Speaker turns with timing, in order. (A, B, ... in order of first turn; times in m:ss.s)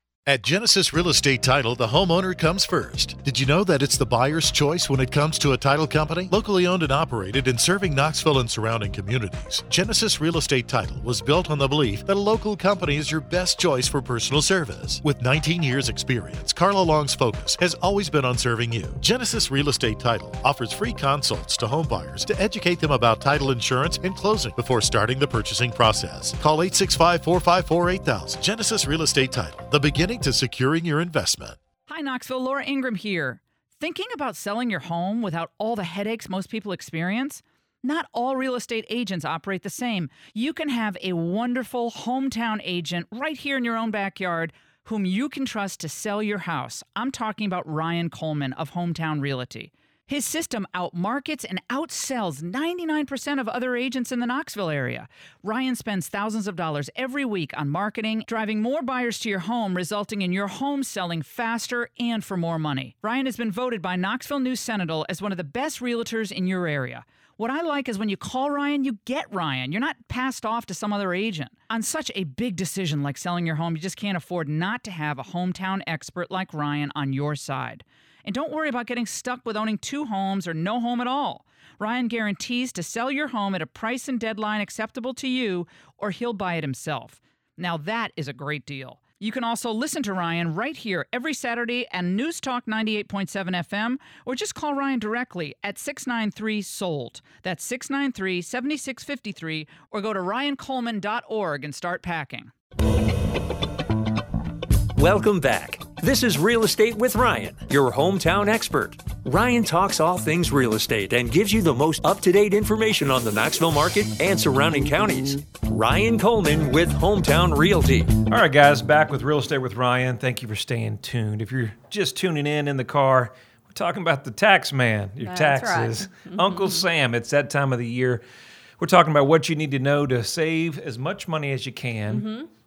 0:00.2-0:31.6 A
0:31.9-1:42.5 B
1:45.0-1:58.2 C
1:58.3-2:08.2 D
2:05.2-2:06.8 E
2:08.8-2:12.3 D
2:12.1-2:12.5 E